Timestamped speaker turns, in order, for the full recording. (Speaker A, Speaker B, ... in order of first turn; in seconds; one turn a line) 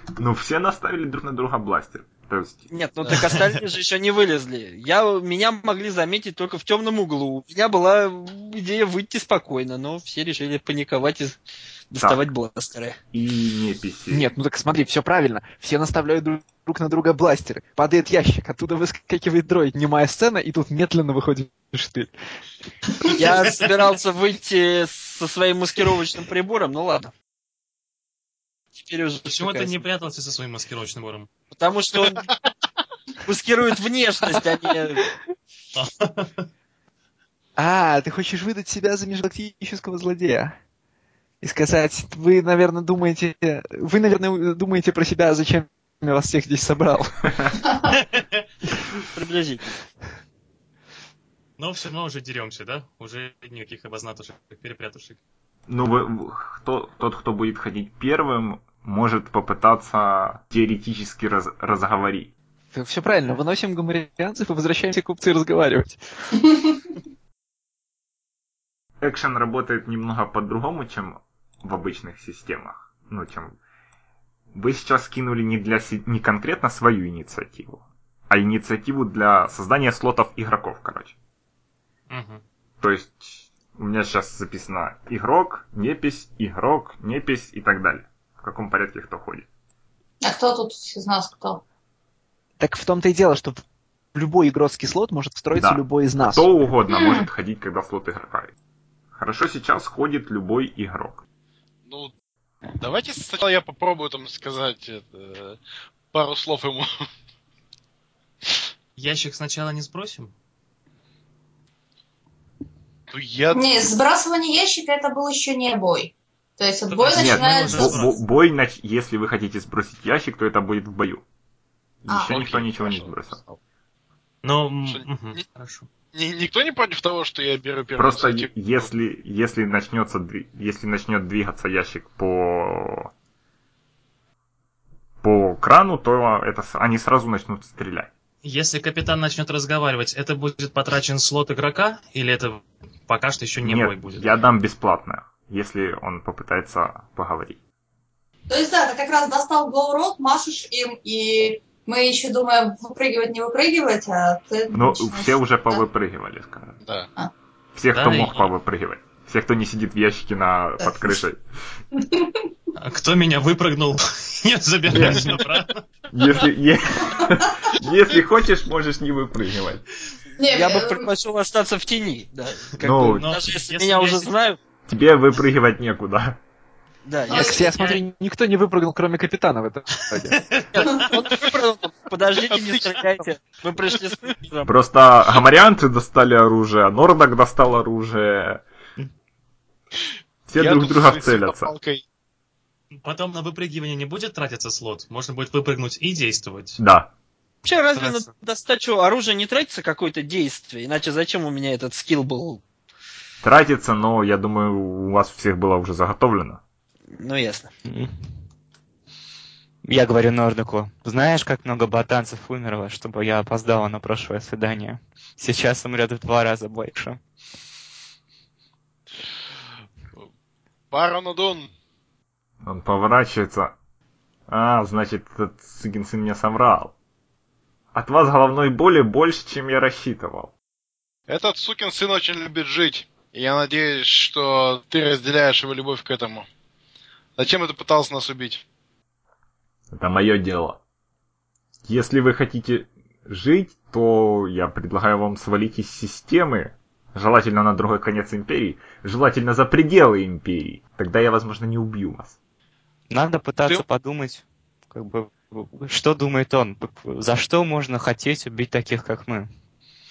Speaker A: 0.2-2.7
Speaker B: 2.7-11.4
Speaker B: 11.9-13.0
Speaker A: 12.0-12.2
Speaker A: 13.1-14.3
Speaker C: 14.1-22.1
Speaker B: 23.1-27.1
Speaker B: 28.8-29.8
Speaker D: 29.3-31.3
Speaker B: 31.5-32.3
Speaker B: 33.2-35.0
Speaker D: 35.7-36.5
Speaker C: 37.6-40.6
Speaker C: 41.4-47.4
Speaker D: 48.0-48.4
Speaker B: 49.1-49.8
Speaker D: 51.6-55.2
Speaker A: 55.7-62.3
Speaker C: 62.7-66.0
Speaker A: 69.0-73.6
Speaker A: 74.5-81.2
Speaker D: 82.1-82.4
Speaker A: 82.8-89.5
Speaker E: 90.2-91.6
Speaker C: 92.6-93.6
Speaker C: 94.2-96.6
Speaker A: 95.5-98.5
Speaker E: 96.9-97.3
Speaker A: 99.1-101.2
Speaker F: 101.9-102.1
Speaker F: 102.7-105.6
Speaker F: 106.1-106.9
Speaker D: 109.0-110.3
Speaker F: 113.1-113.9
Speaker E: 113.5-118.0
Speaker D: 116.9-118.2
Speaker A: 117.1-121.2
Speaker A: 122.0-123.4
Speaker E: 122.1-122.4
Speaker F: 122.3-123.5
Speaker D: 124.4-125.9
Speaker F: 124.8-125.4
Speaker F: 126.1-128.9
Speaker A: 128.0-133.1
Speaker A: 135.2-138.1
Speaker D: 138.4-144.3
Speaker A: 143.6-147.6
Speaker E: 148.5-155.8
Speaker A: 154.7-156.8
Speaker F: 156.8-157.1
Speaker A: 157.8-161.4
Speaker D: 157.9-158.5
Speaker E: 160.8-161.1
Speaker E: 162.0-162.5
Speaker D: 162.8-165.8
Speaker A: 164.9-165.4
Speaker A: 166.1-169.8
Speaker E: 170.4-171.1
Speaker B: 170.5-174.6
Speaker A: 172.8-173.3
Speaker D: 173.2-174.3
Speaker A: 174.9-176.4
Speaker B: 177.1-177.6
Speaker C: 177.3-180.4
Speaker E: 177.3-177.7
Speaker D: 177.8-178.0
Speaker D: 180.2-181.1
Speaker B: 180.7-184.7
Speaker F: 182.4-183.2
Speaker A: 184.7-188.6
Speaker A: 190.5-191.7
Speaker F: 190.6-192.0
Speaker D: 193.0-196.8
Speaker A: 196.8-197.1
Speaker B: 197.6-202.6
Speaker A: 203.4-206.6
Speaker B: 207.1-207.7
Speaker G: 207.9-208.1
Speaker G: 209.8-217.2
Speaker F: 220.9-221.7
Speaker A: 222.6-223.8
Speaker A: 224.5-226.9
Speaker A: 227.9-230.5
Speaker F: 231.3-236.5
Speaker F: 237.4-238.6
Speaker A: 239.9-240.8
Speaker A: 241.8-252.4
Speaker G: 253.1-259.5